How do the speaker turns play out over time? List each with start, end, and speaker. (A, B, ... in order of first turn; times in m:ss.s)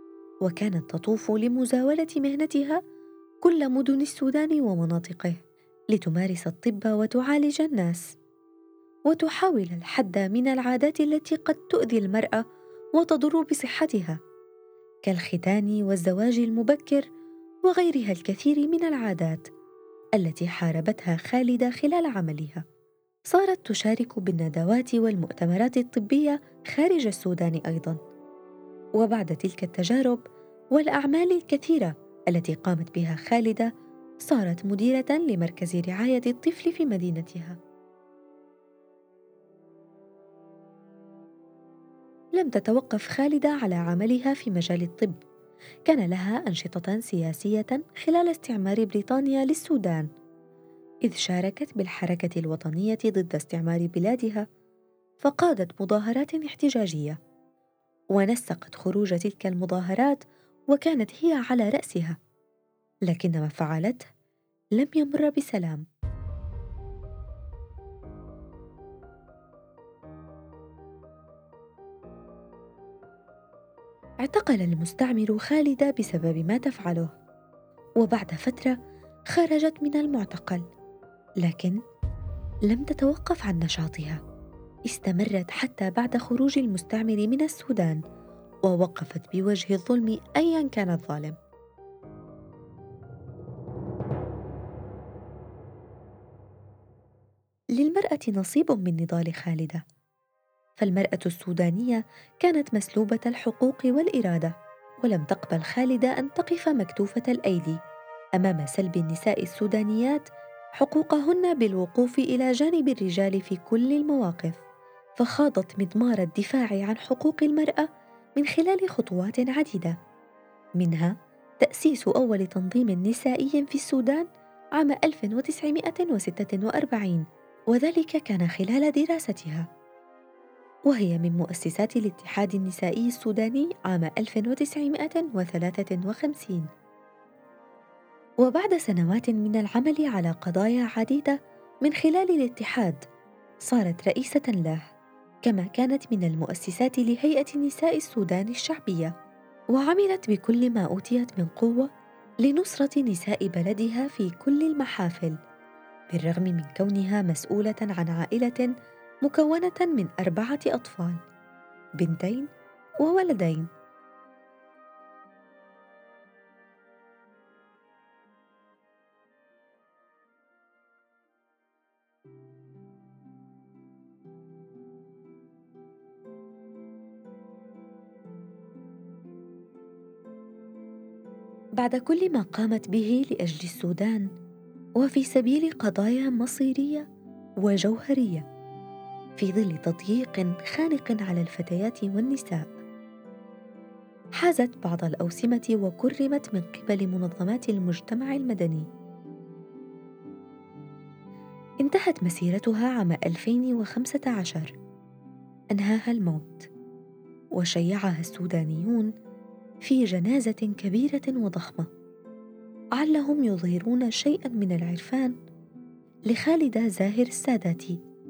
0:00.4-0:02.8 A
0:03.4-0:08.1 A
0:09.1-0:12.4 A
0:13.0-0:14.2 A
0:15.0-0:17.0 A
0:17.6-0:19.5 A
0:20.2-0:22.6 A
0:23.3-0:28.0 A
0:29.0-0:30.2 A
0:30.7-0:33.7 A
0:34.2-0:37.6 A
0:42.4-0:45.2 A
0:45.8-0:50.1 A
0:51.0-0:54.4 A
0:55.2-0:57.2 A
0:58.1-1:02.2 A
1:03.1-1:04.1 A
1:04.8-1:05.8 A
1:14.2-1:17.2 A
1:18.0-1:18.8 A
1:19.3-1:20.6 A
1:21.4-1:21.8 A
1:22.7-1:24.2 A
1:24.9-1:28.0 A
1:28.6-1:31.4 A
1:37.8-1:39.8 A
1:40.8-1:47.8 A
1:48.4-1:50.2 A
1:50.8-1:54.6 A
1:55.2-2:00.0 A
2:00.8-2:09.7 A
2:10.9-2:16.7 A
2:18.4-2:23.0 A
2:23.6-2:24.9 A
2:25.4-2:29.1 A
2:29.7-2:31.9 A
2:32.4-2:35.4 A
2:36.1-2:38.7 A
2:39.2-2:41.2 A
2:42.0-2:42.5 A
2:43.0-2:43.7 A
3:01.8-3:04.3 A
3:05.0-3:07.0 A
3:07.6-3:08.4 A
3:09.4-3:12.7 A
3:14.4-3:18.9 A
3:21.8-3:24.7 A
3:25.7-3:26.7 A
3:27.5-3:29.1 A
3:29.8-3:31.9 A
3:33.0-3:35.4 A
3:36.3-3:38.0 A